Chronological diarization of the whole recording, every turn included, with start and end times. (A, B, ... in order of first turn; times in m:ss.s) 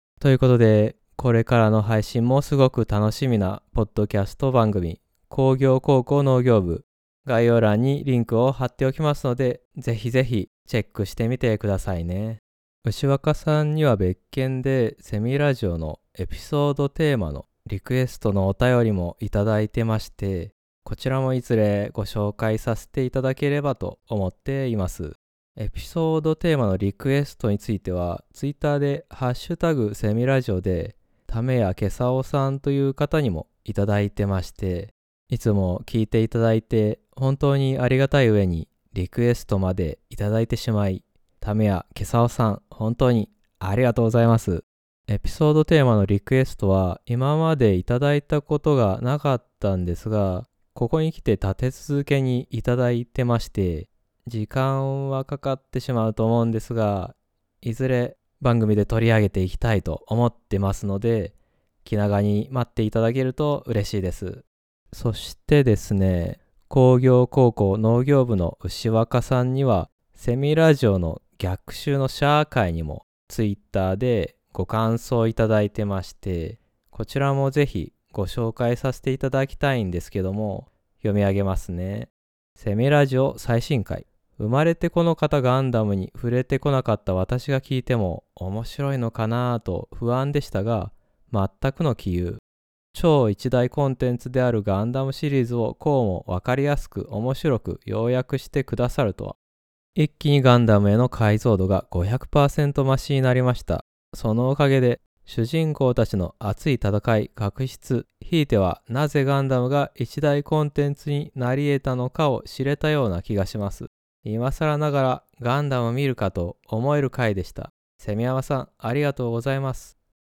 0:00.2-1:32.4 A
1:32.9-1:39.4 A
1:39.9-1:59.9 A